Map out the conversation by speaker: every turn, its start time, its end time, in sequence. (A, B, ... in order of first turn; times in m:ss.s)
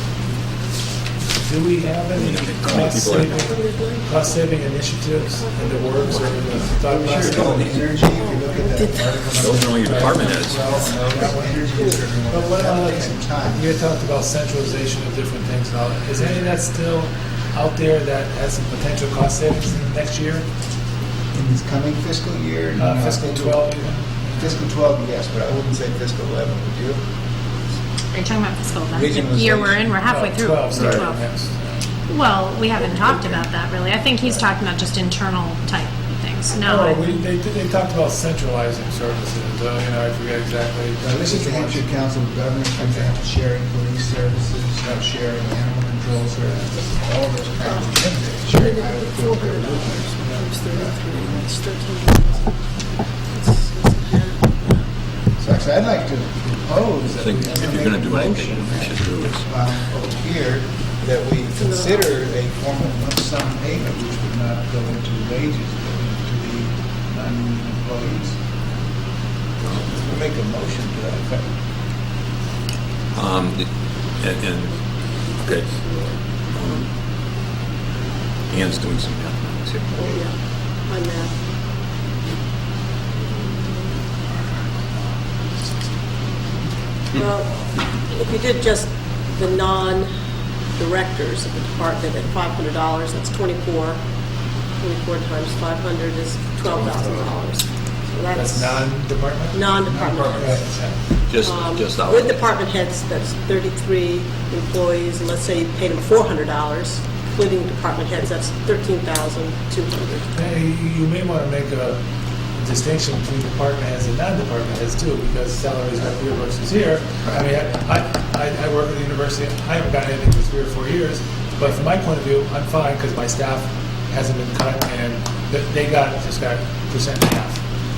0:01.4-0:07.7 A
0:02.2-0:03.4 B
0:03.1-0:04.6 C
0:05.2-0:06.7 C
0:06.8-0:13.8 D
0:07.2-0:07.8 B
0:08.0-0:09.3 C
0:09.4-0:10.8 B
0:09.9-0:11.6 A
0:11.2-0:12.0 C
0:12.3-0:20.5 A
0:21.3-0:23.6 D
0:22.8-0:24.6 A
0:24.4-0:27.0 D
0:28.1-0:31.2 E
0:28.9-0:30.0 D
0:30.0-0:31.8 A
0:30.7-0:31.0 D
0:32.1-0:37.2 E
0:36.5-0:41.8 A
0:41.0-0:51.0 D
0:47.6-0:47.9 C
0:48.5-0:52.6 C
0:50.2-0:50.5 A
0:53.3-0:54.8 C
0:55.4-1:08.4 D
0:57.2-0:59.5 B
1:01.6-1:02.1 C
1:09.6-1:10.1 B
1:09.9-1:11.4 D
1:13.1-1:15.8 B
1:15.8-1:16.1 C
1:16.5-1:16.9 B
1:18.5-1:20.1 B
1:20.0-1:20.3 C
1:20.9-1:21.3 C
1:27.1-1:30.1 C
1:30.8-1:34.0 C
1:34.8-1:38.9 C
1:38.3-1:39.6 A
1:39.5-1:40.6 C
1:39.9-1:40.6 D
1:40.3-1:40.9 A
1:41.3-1:42.6 B
1:41.4-1:50.3 C
1:50.3-1:52.0 A
1:52.6-2:07.6 A